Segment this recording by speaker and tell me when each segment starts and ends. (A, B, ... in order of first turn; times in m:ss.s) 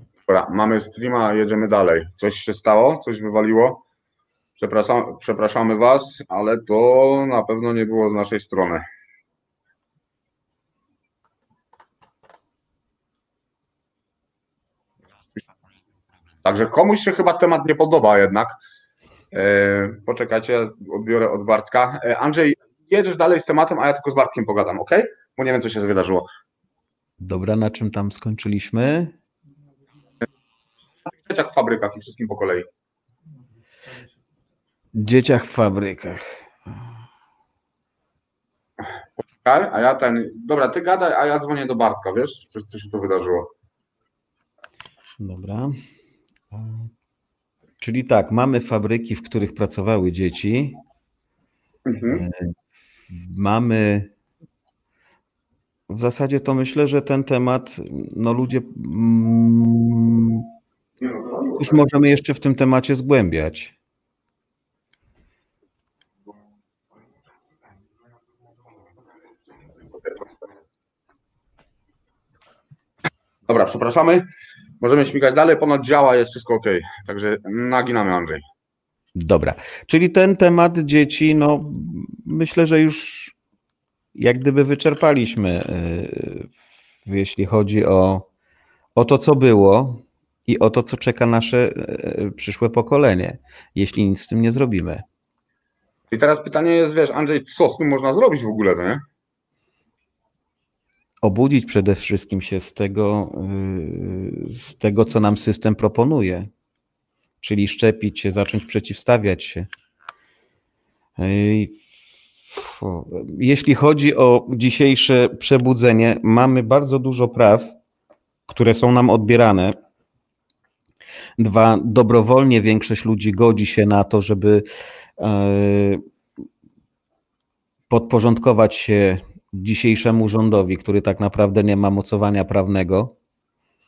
0:00.3-0:03.8 A
0:04.6-0:08.8 A
0:16.4-0:18.6 A
0:19.3-0:26.3 A
0:27.2-0:29.1 B
0:31.0-0:32.7 A
0:35.0-0:36.8 B
0:39.2-0:43.5 A
0:45.2-0:45.8 B
0:46.5-0:46.9 B
0:47.8-0:50.8 B
0:51.8-0:52.2 A
0:52.1-0:52.5 B
0:53.1-0:54.1 B
0:55.9-1:00.5 B
1:01.0-1:01.7 A
1:01.5-1:03.7 B
1:13.5-1:14.2 A
1:14.8-1:18.4 A
1:19.2-1:23.3 B
1:24.1-1:26.5 B
1:27.0-1:28.3 B
1:29.0-1:35.0 B
1:36.1-1:39.0 A
1:41.2-1:46.5 B
1:47.4-1:49.7 B
1:51.2-1:51.8 B
1:52.5-1:57.7 B
1:58.5-1:59.8 B
2:01.4-2:04.6 B
2:05.2-2:06.0 B
2:07.9-2:13.1 B